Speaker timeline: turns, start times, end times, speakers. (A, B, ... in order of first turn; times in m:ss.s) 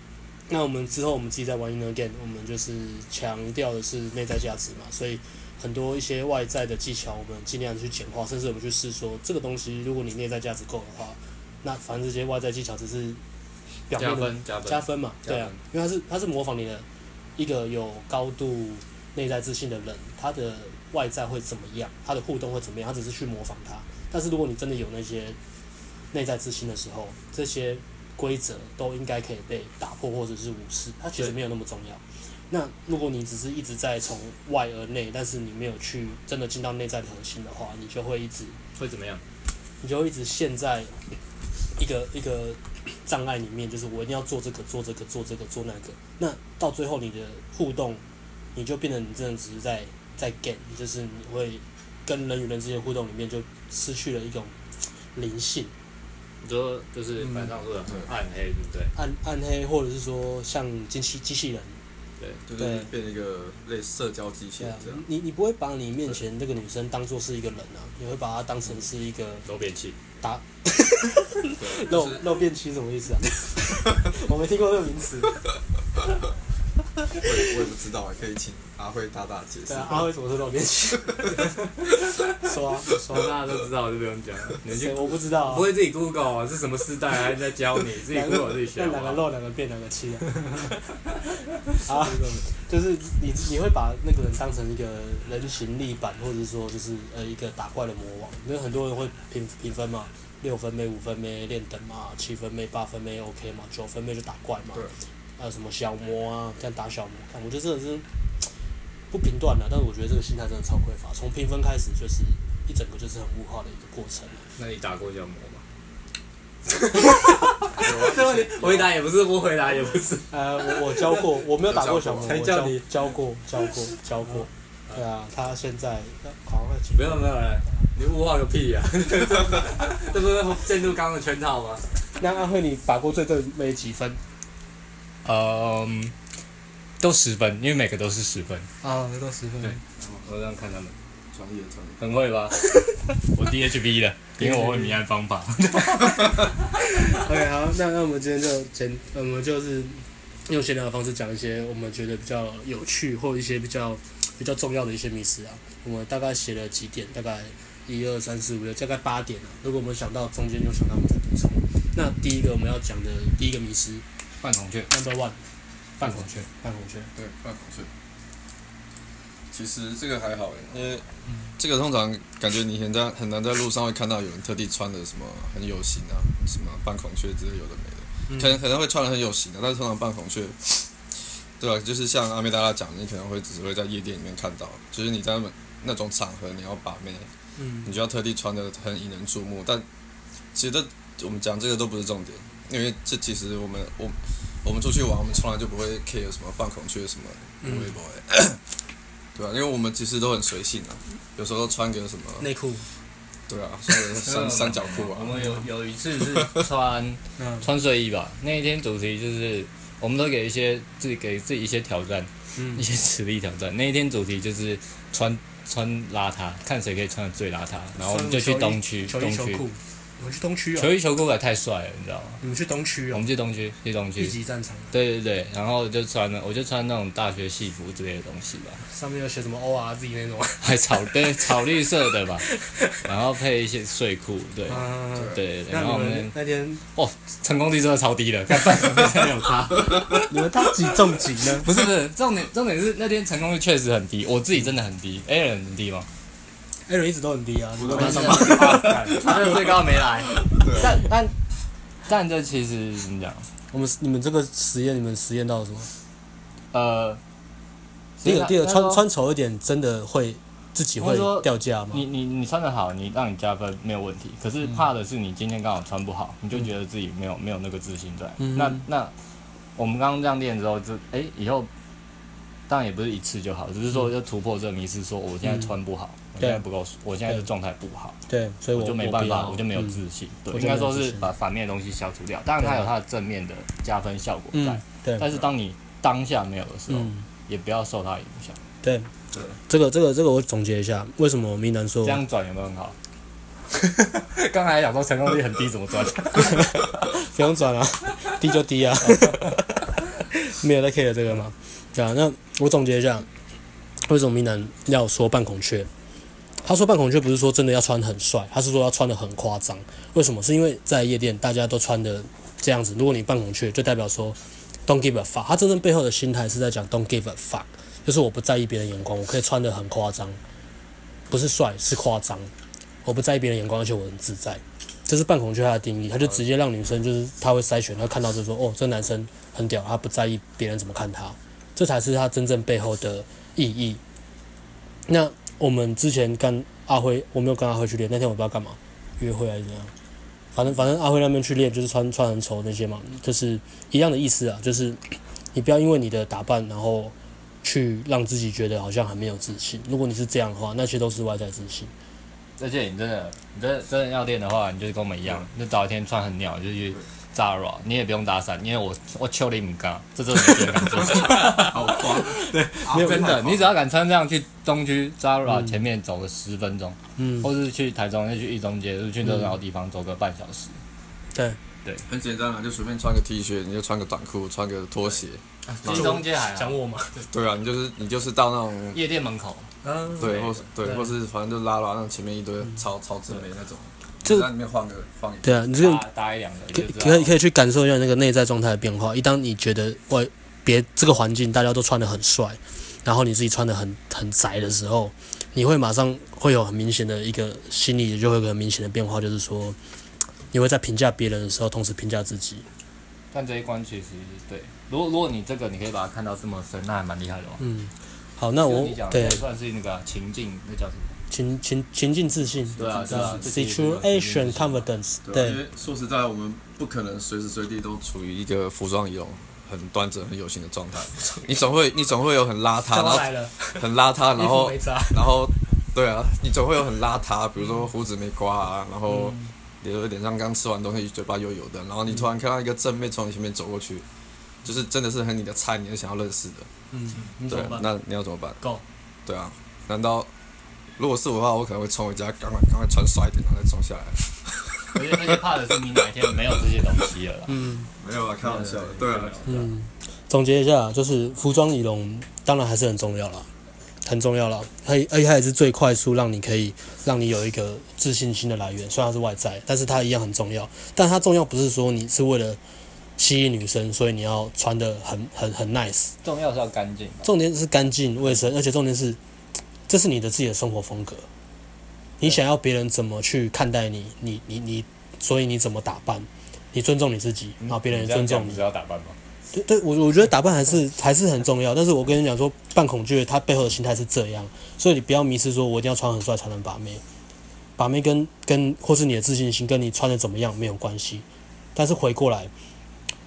0:00.5-0:13.2 A
0:13.9-0:16.8 A
0:14.0-0:15.6 B
0:17.4-0:25.4 A
0:26.1-0:38.6 A
0:38.8-0:39.2 B
0:39.8-0:41.1 A
0:41.8-0:48.0 A
0:48.5-0:54.5 A
0:55.1-0:55.7 A
0:56.4-0:58.9 B
0:58.9-1:01.8 A
1:02.5-1:05.0 C
1:02.6-1:02.9 A
1:04.6-1:09.4 A
1:09.4-1:10.0 B
1:10.2-1:15.4 A
1:11.6-1:12.2 C
1:17.2-1:20.1 C
1:19.7-1:21.6 A
1:21.8-1:22.2 B
1:22.3-1:23.2 A
1:22.9-1:29.2 B
1:24.7-1:25.7 A
1:28.1-1:30.7 A
1:31.6-1:32.2 B
1:31.8-1:44.8 A
1:45.4-1:48.4 A
1:49.1-1:54.4 A
1:54.6-1:55.6 B
1:56.7-2:01.3 B
1:57.8-1:58.9 C
2:00.3-2:07.3 A
2:01.6-2:02.3 C
2:02.2-2:02.9 B
2:06.9-2:11.8 B
2:12.2-2:14.2 A
2:15.2-2:16.1 B
2:17.0-2:18.7 B
2:18.8-2:19.8 A
2:19.6-2:20.9 B
2:21.3-2:22.0 C
2:22.0-2:22.6 B
2:23.1-2:26.5 B
2:24.4-2:25.0 A
2:26.8-2:44.0 A
2:44.4-2:44.9 B
2:44.9-2:45.4 A
2:46.0-2:47.1 A
2:46.0-2:46.3 B
2:47.1-2:47.9 C
2:49.5-2:51.0 C
2:51.6-3:00.9 C
2:58.3-2:58.6 A
3:01.6-3:07.3 C
3:07.6-3:07.9 A
3:07.8-3:09.8 C
3:10.5-3:18.6 C
3:17.6-3:17.9 A
3:19.3-3:22.5 C
3:22.4-3:22.9 A
3:23.5-3:25.3 C
3:24.2-3:39.6 B
3:26.3-3:26.6 C
3:27.4-3:27.7 A
3:32.6-3:32.8 A
3:38.0-3:40.9 A
3:40.8-3:42.4 B
3:42.4-3:43.3 A
3:43.1-3:44.4 B
3:44.2-3:44.9 A
3:44.9-3:48.8 B
3:48.9-3:51.1 A
3:50.6-3:52.5 B
3:52.4-3:53.0 A
3:53.0-3:56.3 B
3:54.7-3:56.8 A
3:56.9-4:00.3 B
4:00.1-4:01.7 A
4:01.6-4:06.1 B
4:06.9-4:09.0 A
4:07.8-4:10.9 C
4:07.9-4:11.3 B
4:10.8-4:11.3 A
4:12.1-4:13.5 B
4:13.7-4:15.9 A
4:16.7-4:17.2 B
4:18.2-4:19.0 B
4:18.2-4:22.0 A
4:21.0-4:29.1 B
4:28.4-4:28.8 A
4:29.8-4:31.7 B
4:32.7-4:38.2 B
4:35.4-4:35.7 A
4:38.3-4:40.0 A
4:38.7-4:48.6 B
4:40.5-4:41.3 A
4:44.5-4:45.2 A
4:46.9-4:47.2 A
4:48.8-4:49.1 A
4:49.7-4:52.2 A
4:52.0-4:53.0 B
4:53.7-4:56.8 B
4:56.4-4:59.7 A
4:59.0-4:59.6 B
5:00.3-5:03.3 A
5:04.1-5:05.9 A
5:06.6-5:20.4 A
5:21.3-5:22.5 A
5:23.0-5:34.0 A
5:35.1-5:39.9 A
5:40.5-5:51.9 A
5:52.6-6:10.8 B
6:00.9-6:03.7 C
6:02.5-6:03.3 A
6:05.5-6:05.7 A
6:07.2-6:07.5 A
6:09.3-6:09.5 A
6:12.1-6:16.2 C
6:15.7-6:16.8 B
6:15.8-6:17.3 A
6:17.3-6:19.0 C
6:18.9-6:20.7 B
6:19.8-6:21.1 A
6:20.2-6:25.6 C
6:24.2-6:24.5 A
6:25.4-6:26.0 A
6:25.7-6:27.3 B
6:26.7-6:39.8 A
6:40.5-6:42.6 A
6:43.3-6:47.6 B
6:47.6-6:49.4 A
6:48.6-6:51.2 B
6:51.3-6:55.6 A
6:52.7-6:53.5 C
6:52.8-6:54.8 B
6:55.3-7:14.0 C
7:02.9-7:05.4 A
7:09.1-7:09.5 A
7:14.6-7:16.7 C
7:16.9-7:17.8 A
7:17.5-7:18.6 C
7:19.3-7:20.3 C
7:21.0-7:25.4 C
7:24.9-7:27.6 B
7:27.5-7:27.9 A
7:28.0-7:29.5 C
7:28.4-7:29.7 B
7:29.4-7:33.5 A
7:34.0-7:42.6 A
7:43.2-7:46.2 A
7:46.2-7:47.3 B
7:47.2-7:49.2 A
7:49.9-7:51.3 A
7:52.2-7:58.6 A
7:57.6-7:59.2 B
7:59.5-8:07.0 A
8:07.8-8:12.5 A